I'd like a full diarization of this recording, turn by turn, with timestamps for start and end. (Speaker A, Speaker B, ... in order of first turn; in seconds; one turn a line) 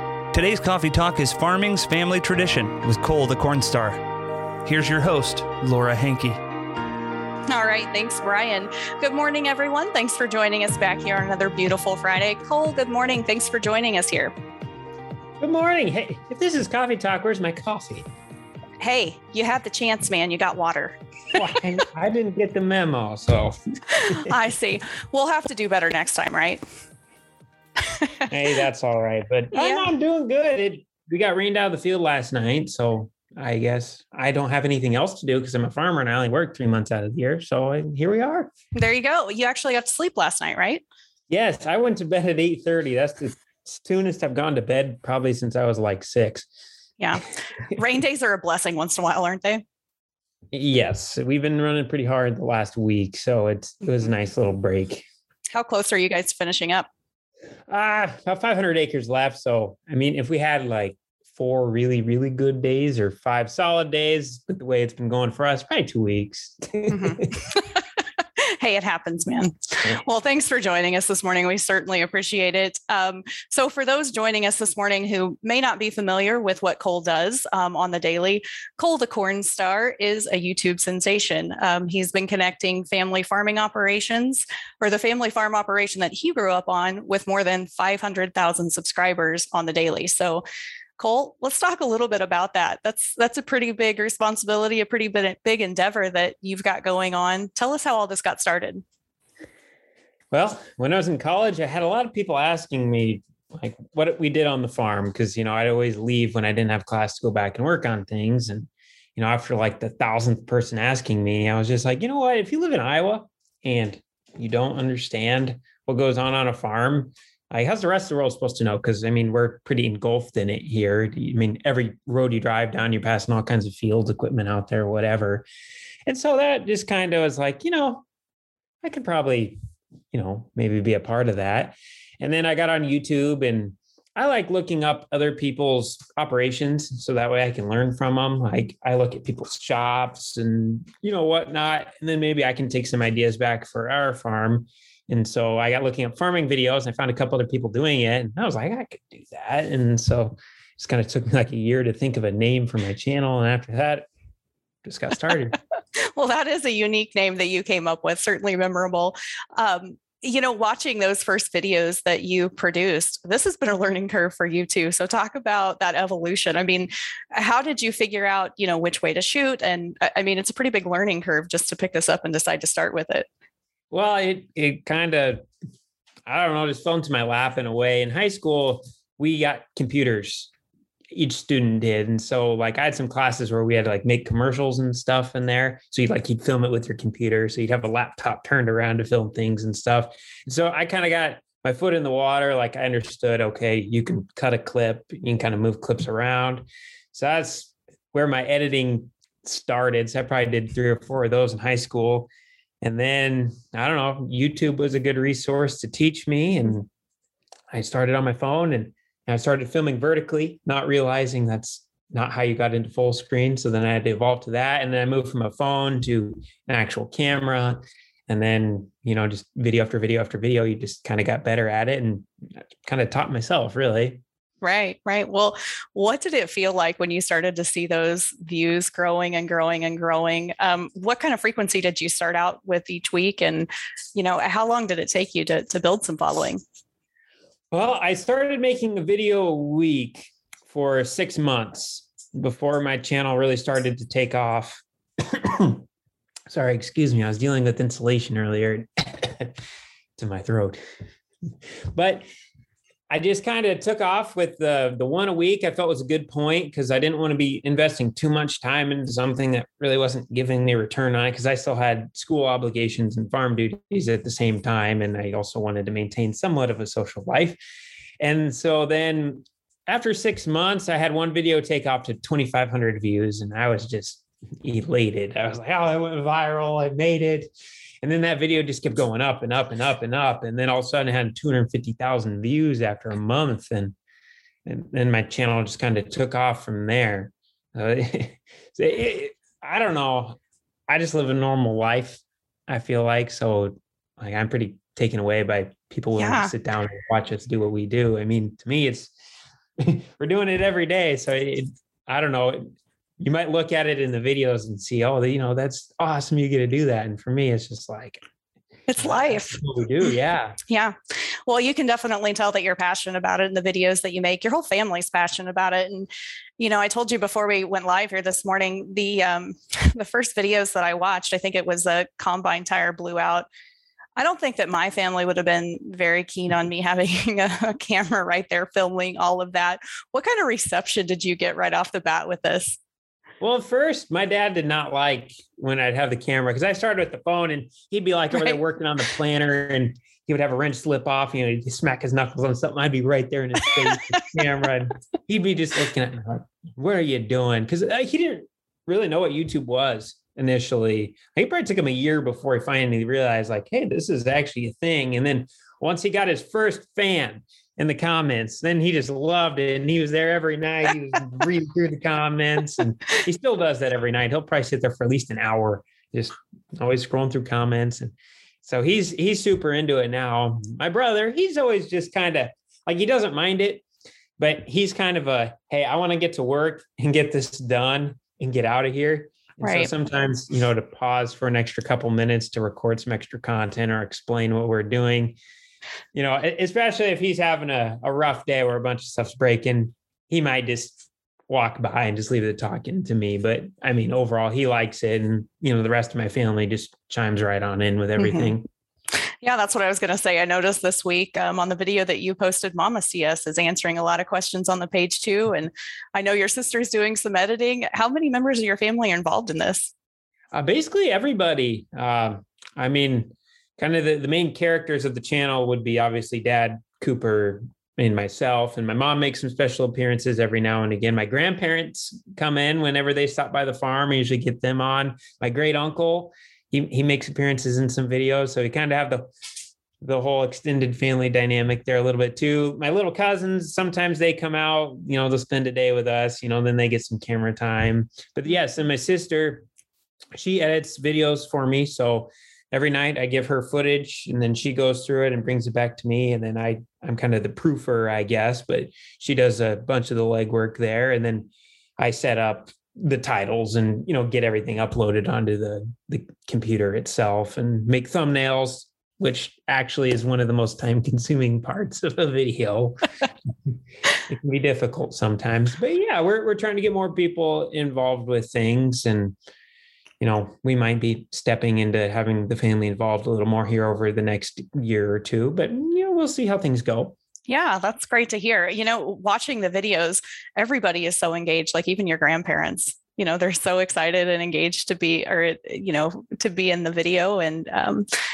Speaker A: 0.3-4.0
Speaker A: 4.6-6.4
Speaker B: 7.5-14.3
Speaker C: 15.4-18.1
Speaker B: 18.8-21.5
Speaker C: 21.3-24.4
Speaker B: 23.9-26.6
Speaker B: 27.8-28.3
Speaker C: 28.3-38.5
Speaker B: 29.5-29.9
Speaker B: 38.8-40.8
Speaker C: 41.3-46.5
Speaker B: 47.0-49.6
Speaker C: 50.5-55.0
Speaker B: 55.5-56.9
Speaker C: 57.7-67.3
Speaker B: 66.9-67.8
Speaker B: 68.4-90.4
Speaker B: 91.0-98.8
Speaker C: 100.3-125.5
Speaker C: 126.1-128.1
Speaker C: 128.8-129.6
Speaker C: 130.1-154.1
Speaker C: 154.8-155.6
Speaker B: 156.0-173.3
Speaker C: 173.9-175.4
Speaker C: 176.3-180.5
Speaker C: 181.1-202.3
Speaker C: 202.8-206.9
Speaker C: 207.7-222.3
Speaker C: 222.8-224.2
Speaker B: 224.6-236.6
Speaker C: 237.7-245.8
Speaker C: 246.5-249.6
Speaker C: 250.2-250.8
Speaker C: 251.9-252.2
Speaker C: 253.1-267.6
Speaker C: 268.2-277.5
Speaker C: 278.0-284.0
Speaker C: 284.6-299.1
Speaker B: 296.2-296.5
Speaker C: 299.8-308.2
Speaker B: 308.9-309.6
Speaker C: 309.0-310.6
Speaker B: 310.7-323.5
Speaker B: 324.2-332.8
Speaker C: 333.4-373.8
Speaker C: 374.4-385.4
Speaker B: 379.6-379.9
Speaker C: 386.1-398.6
Speaker B: 398.2-398.5
Speaker B: 399.4-409.9
Speaker C: 410.5-429.3
Speaker C: 430.0-439.7
Speaker C: 440.4-463.1
Speaker C: 464.3-469.4
Speaker C: 470.2-477.2
Speaker B: 477.5-488.1